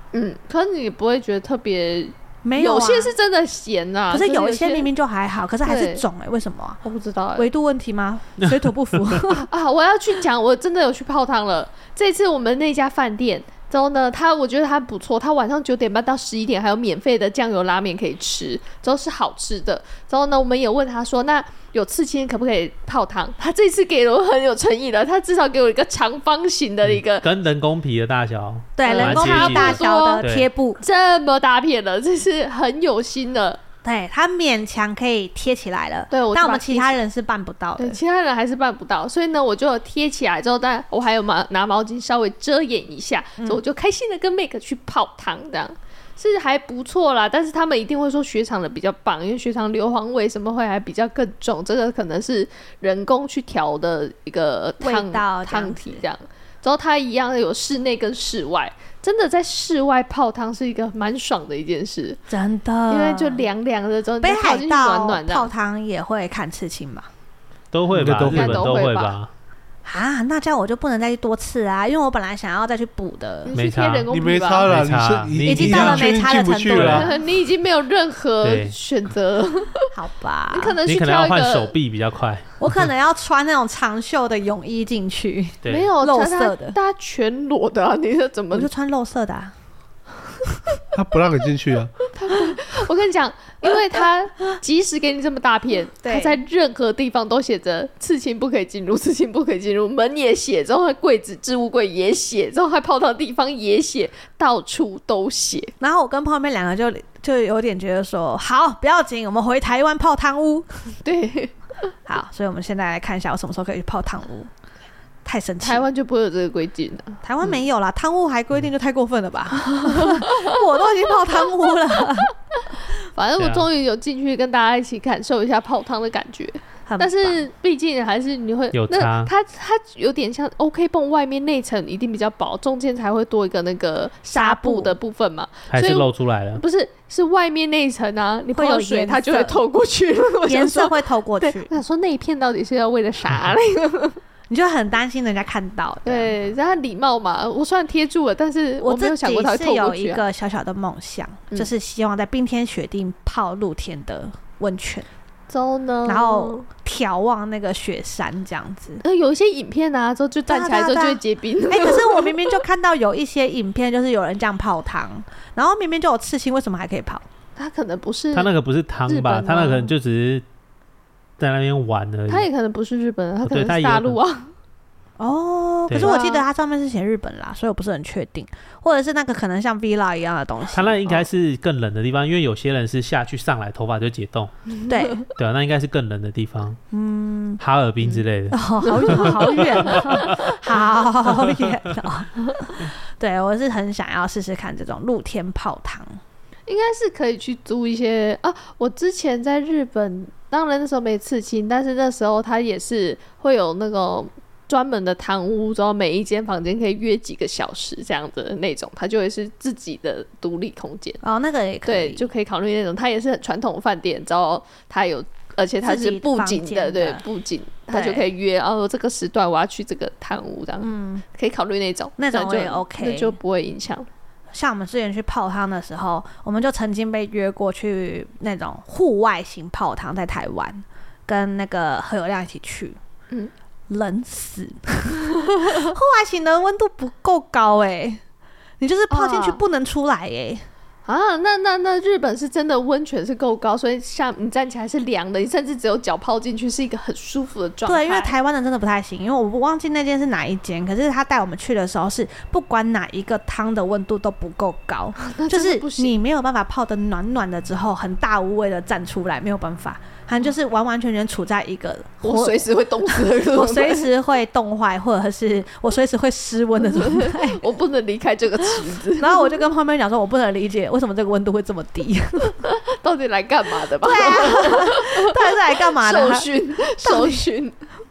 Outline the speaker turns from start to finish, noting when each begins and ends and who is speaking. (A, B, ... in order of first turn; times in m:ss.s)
0:00.1-0:04.9 A
0:02.4-0:03.1 B
0:04.1-0:06.8 B
0:05.6-0:06.0 A
0:06.8-0:07.5 A
0:07.4-0:09.5 B
0:08.4-0:09.2 C
0:09.3-0:27.3 A
0:26.8-0:30.5 C
0:28.8-0:30.8 B
0:28.8-0:30.2 A
0:30.8-0:33.6 A
0:33.8-0:38.0 B
0:36.1-0:37.0 A
0:37.8-1:02.2 A
0:54.8-0:56.0 B
1:02.3-1:03.5 B
1:02.9-1:05.5 A
1:04.2-1:07.1 B
1:07.7-1:09.3 C
1:07.9-1:08.8 D
1:08.2-1:09.1 A
1:09.8-1:13.5 B
1:13.4-1:14.7 A
1:13.5-1:14.1 C
1:14.1-1:17.1 D
1:14.6-1:16.2 C
1:15.4-1:17.2 B
1:16.7-1:17.1 C
1:16.8-1:19.9 A
1:18.4-1:18.8 C
1:19.9-1:20.8 B
1:20.5-1:21.8 A
1:20.9-1:22.7 C
1:22.6-1:26.8 B
1:25.7-1:28.7 A
1:28.5-1:29.5 B
1:30.9-1:32.0 D
1:32.1-1:45.7 A
1:36.0-1:36.4 B
1:45.8-1:50.7 B
1:51.0-1:51.9 A
1:52.1-1:54.5 B
1:55.2-1:55.9 B
1:55.6-1:57.6 A
1:57.2-2:02.3 B
1:59.7-2:00.6 A
2:03.1-2:24.2 A
2:03.4-2:03.7 C
2:06.9-2:07.5 B
2:08.7-2:09.3 C
2:14.3-2:15.0 B
2:15.7-2:16.6 C
2:18.5-2:19.6 B
2:20.5-2:21.8 B
2:24.5-2:26.4 B
2:26.0-2:30.2 A
2:28.8-2:35.1 B
2:35.5-2:36.6 A
2:36.1-2:39.0 B
2:39.0-2:42.6 A
2:40.5-2:47.2 B
2:47.6-2:48.5 A
2:48.3-2:50.4 C
2:49.1-2:49.9 A
2:51.4-2:52.5 C
2:52.3-2:54.5 A
2:53.4-2:54.2 C
2:55.2-3:01.1 B
2:56.0-2:56.5 A
3:00.7-3:04.5 C
3:04.7-3:05.2 A
3:04.9-3:05.3 B
3:05.4-3:06.8 C
3:06.9-3:07.6 B
3:07.6-3:10.0 C
3:08.5-3:16.2 B
3:08.8-3:10.6 A
3:16.7-3:31.2 A
3:31.2-3:32.2 B
3:31.9-3:44.1 A
3:35.8-3:37.2 B
3:37.9-3:38.3 B
3:40.8-3:41.2 B
3:42.2-3:43.4 B
3:44.5-3:53.0 B
3:53.9-3:58.2 B
3:58.8-4:00.6 B
3:59.1-3:59.6 A
4:01.1-4:08.3 A
4:07.9-4:27.6 B
4:15.2-4:16.2 A
4:22.2-4:24.1 A
4:26.8-4:29.6 A
4:29.2-4:32.7 B
4:32.6-4:37.8 A
4:34.0-4:36.5 B
4:37.0-4:37.5 B